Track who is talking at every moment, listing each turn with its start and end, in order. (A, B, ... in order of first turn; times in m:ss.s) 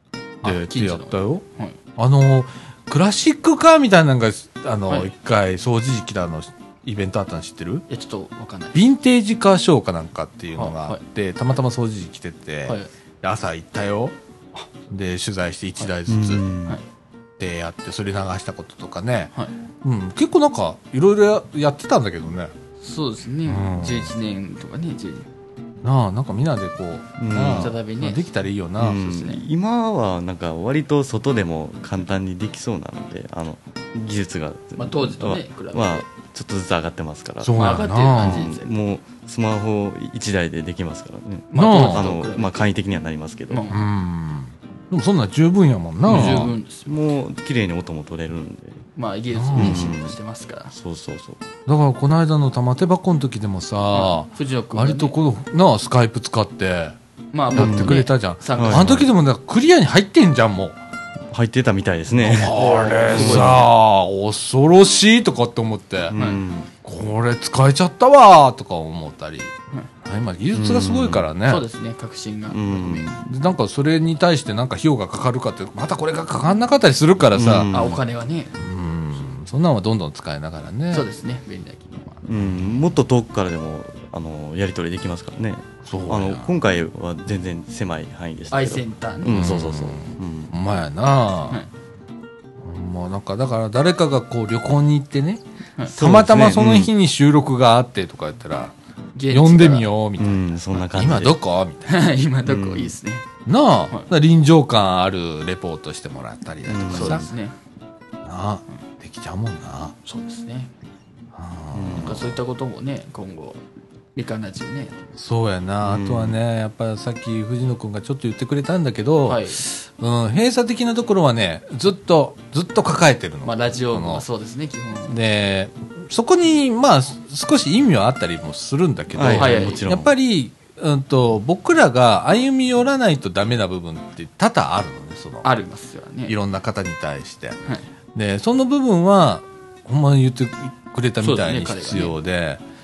0:00.4-0:01.4 A
0:00.4-0:01.8 B
0:02.0-0:07.8 A
0:07.9-0:08.8 B
0:08.7-0:14.2 A
0:10.6-0:11.0 B
0:14.9-0:16.4 A
0:16.1-0:16.8 C
0:17.4-0:22.5 A
0:22.8-0:25.3 B
0:23.5-0:24.1 A
0:25.8-0:29.0 A
0:27.2-0:27.8 C
0:27.5-0:28.2 B
0:28.8-0:43.7 C
0:29.0-0:29.4 B
0:34.8-0:36.1 B
0:37.4-0:38.5 A
0:37.6-0:38.7 B
0:41.5-0:42.7 B
0:41.5-0:42.1 A
0:43.5-0:43.8 B
0:43.7-0:46.5 A
0:46.0-0:46.9 B
0:46.1-0:48.8 C
0:49.0-0:50.7 B
0:49.3-0:49.9 A
0:49.6-0:50.2 C
0:50.7-0:51.4 C
0:51.7-0:57.0 A
0:53.9-0:55.2 B
0:57.3-0:59.0 B
0:57.5-1:00.8 A
0:57.5-0:59.1 C
1:01.3-1:03.6 C
1:02.1-1:06.2 A
1:02.5-1:03.6 B
1:06.1-1:06.7 C
1:06.2-1:06.4 B
1:06.8-1:09.5 A
1:10.0-1:11.6 A
1:10.5-1:11.2 C
1:11.5-1:13.2 B
1:12.5-1:13.2 C
1:13.2-1:17.7 A
1:17.3-1:18.0 C
1:17.7-1:18.6 B
1:18.6-1:21.1 A
1:20.9-1:22.2 B
1:22.2-1:30.5 C
1:25.8-1:26.5 A
1:28.5-1:29.5 B
1:29.3-1:31.6 A
1:32.6-1:35.4 A
1:35.8-1:36.9 C
1:35.9-1:38.7 A
1:39.2-1:39.9 B
1:39.3-1:41.9 A
1:40.2-1:41.4 C
1:41.9-1:43.2 B
1:42.4-1:43.0 C
1:43.5-1:47.2 A
1:46.7-1:47.3 C
1:46.9-1:47.6 B
1:48.2-1:50.0 A
1:50.1-1:50.7 B
1:51.4-1:52.4 A
1:51.7-1:52.2 C
1:52.0-1:53.6 B
1:54.2-1:55.0 B
1:55.2-2:04.2 A
1:55.8-1:56.4 C
1:59.3-1:59.6 B
2:03.4-2:05.2 B
2:05.1-2:15.5 A
2:09.2-2:10.1 C
2:09.3-2:09.9 B
2:15.4-2:16.4 B
2:16.3-2:17.6 A
2:18.2-2:22.6 A
2:21.2-2:22.1 B